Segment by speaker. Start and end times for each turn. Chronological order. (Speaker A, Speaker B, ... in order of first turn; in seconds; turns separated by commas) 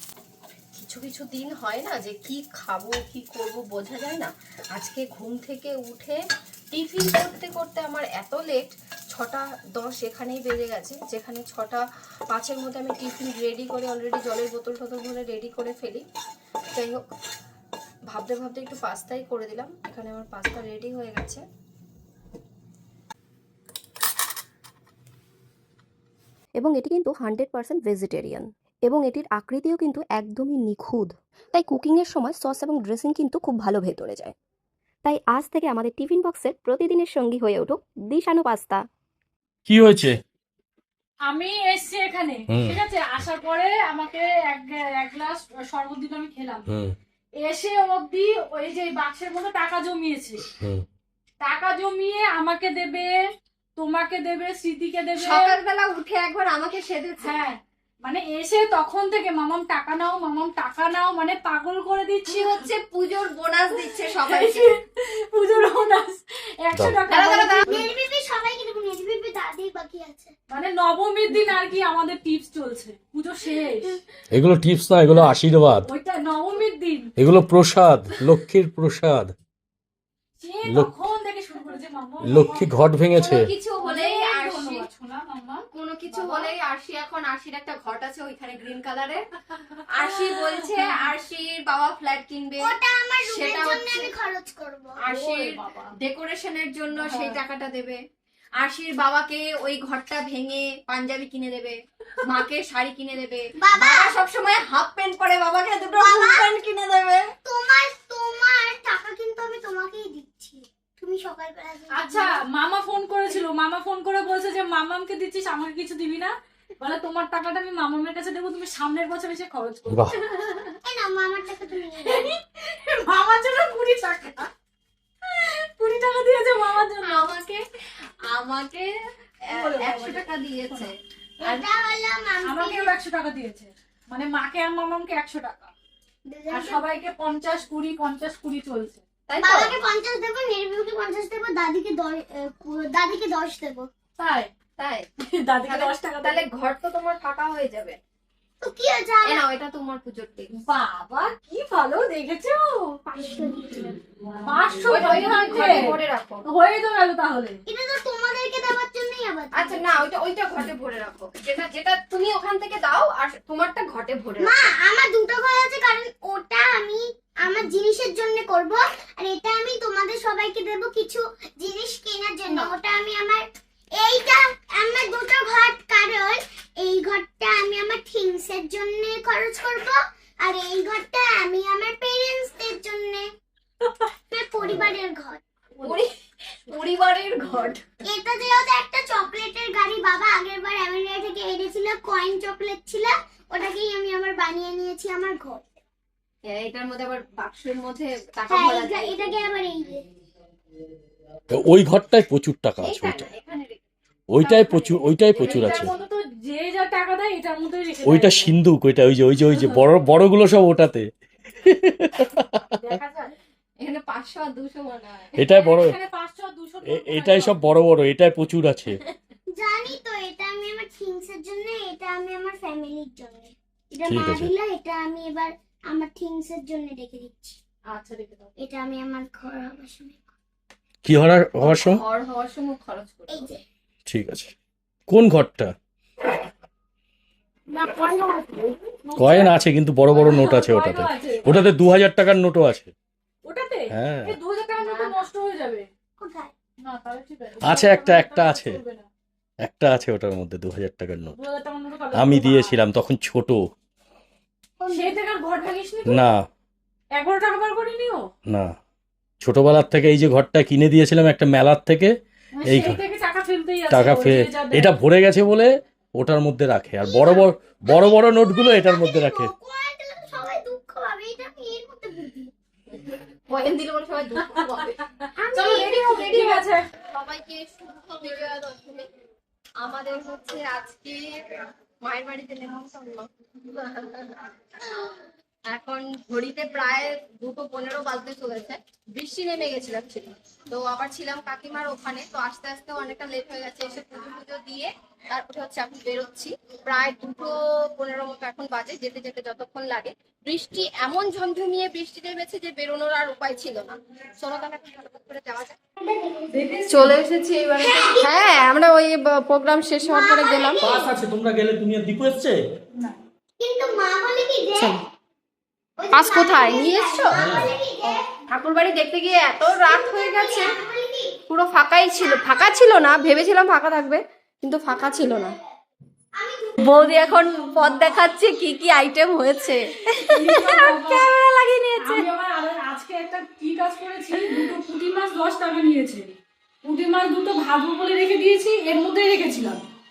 Speaker A: 0.8-6.2, Speaker A: 6.7-16.1, Speaker A: 16.7-17.0, Speaker A: 18.1-21.4, Speaker B: 26.6-34.3, Speaker B: 35.0-38.8, Speaker C: 39.7-40.1, Speaker D: 41.3-46.7, Speaker C: 42.5-42.8, Speaker C: 46.7-46.9, Speaker D: 47.4-50.4, Speaker D: 51.4-53.1, Speaker D: 53.8-55.5, Speaker E: 55.2-57.4, Speaker D: 57.2-62.6, Speaker E: 62.3-64.7, Speaker D: 63.8-67.8, Speaker E: 67.1-67.7, Speaker F: 67.6-70.3, Speaker D: 70.5-74.0, Speaker C: 74.3-75.9, Speaker D: 75.9-77.1, Speaker C: 77.2-79.3, Speaker D: 80.4-82.7, Speaker C: 82.2-83.5, Speaker E: 83.2-84.8, Speaker D: 83.8-86.5, Speaker E: 85.7-89.2, Speaker E: 89.9-94.1, Speaker D: 90.0-90.9, Speaker F: 92.6-94.9, Speaker E: 95.0-98.0, Speaker D: 95.1-95.9, Speaker D: 97.0-97.4, Speaker E: 98.6-107.3, Speaker F: 103.6-104.2, Speaker F: 106.0-106.5, Speaker F: 107.4-112.4, Speaker D: 111.9-120.7, Speaker C: 119.9-120.2, Speaker F: 120.8-122.3, Speaker D: 122.0-124.5, Speaker D: 125.3-127.3, Speaker E: 127.0-127.6, Speaker E: 128.3-128.9, Speaker E: 129.5-131.5, Speaker D: 129.5-130.9, Speaker F: 131.4-132.9, Speaker D: 132.4-135.7, Speaker F: 136.2-136.8, Speaker D: 136.5-139.0, Speaker E: 139.3-139.8, Speaker F: 139.4-143.9, Speaker D: 144.2-144.5, Speaker E: 144.8-145.1, Speaker D: 145.3-146.4, Speaker E: 145.7-148.0, Speaker F: 148.6-149.4, Speaker E: 149.2-150.5, Speaker D: 150.7-153.0, Speaker F: 153.1-153.9, Speaker D: 154.4-157.6, Speaker E: 154.8-156.4, Speaker F: 157.7-159.8, Speaker E: 159.5-164.5, Speaker F: 164.4-183.3, Speaker F: 184.3-185.4, Speaker E: 185.8-186.1, Speaker E: 186.7-187.8, Speaker F: 188.0-195.6, Speaker E: 196.4-199.3, Speaker F: 198.5-200.0, Speaker C: 201.5-203.3, Speaker E: 202.8-203.8, Speaker C: 204.3-205.9, Speaker D: 204.4-208.5, Speaker E: 205.3-205.9, Speaker C: 208.0-211.1, Speaker D: 209.5-209.8, Speaker C: 211.6-212.8, Speaker D: 212.8-213.3, Speaker E: 213.8-215.3, Speaker C: 215.3-216.0, Speaker D: 215.5-217.6, Speaker C: 216.8-219.0, Speaker F: 219.5-227.6, Speaker C: 224.0-224.5, Speaker D: 227.9-228.5, Speaker F: 228.6-230.3, Speaker C: 231.0-232.0, Speaker E: 231.6-233.5, Speaker F: 233.3-233.6, Speaker C: 234.1-234.5, Speaker C: 235.1-235.7, Speaker D: 237.7-239.5, Speaker C: 239.2-242.9, Speaker D: 240.1-241.4, Speaker D: 243.4-245.9, Speaker C: 243.9-244.3, Speaker F: 244.8-245.2, Speaker F: 246.2-246.5, Speaker D: 246.8-249.1, Speaker C: 247.6-248.8, Speaker C: 249.6-251.3, Speaker D: 251.4-252.8, Speaker C: 252.1-253.6, Speaker F: 254.8-255.2, Speaker D: 254.9-256.2, Speaker C: 256.1-256.4, Speaker D: 257.2-258.3, Speaker C: 259.4-263.0, Speaker D: 262.6-264.9, Speaker C: 263.9-269.5, Speaker F: 267.0-272.5, Speaker E: 273.5-275.0, Speaker D: 275.5-276.9, Speaker F: 275.5-276.6, Speaker E: 275.7-276.3, Speaker E: 277.1-279.1, Speaker E: 279.8-281.3, Speaker E: 282.0-284.5, Speaker E: 285.6-305.8, Speaker F: 306.0-306.6, Speaker D: 306.6-307.1, Speaker E: 306.9-310.8, Speaker F: 307.8-308.6, Speaker F: 310.0-311.1, Speaker C: 310.8-312.6, Speaker F: 313.6-315.0, Speaker F: 316.0-318.2, Speaker E: 316.1-317.7, Speaker C: 317.4-317.7, Speaker E: 318.5-320.8, Speaker F: 319.8-321.4, Speaker E: 321.5-325.5, Speaker F: 322.2-322.9, Speaker F: 324.9-325.5, Speaker F: 326.3-328.2, Speaker E: 326.8-332.2, Speaker D: 330.3-331.3, Speaker D: 332.0-339.8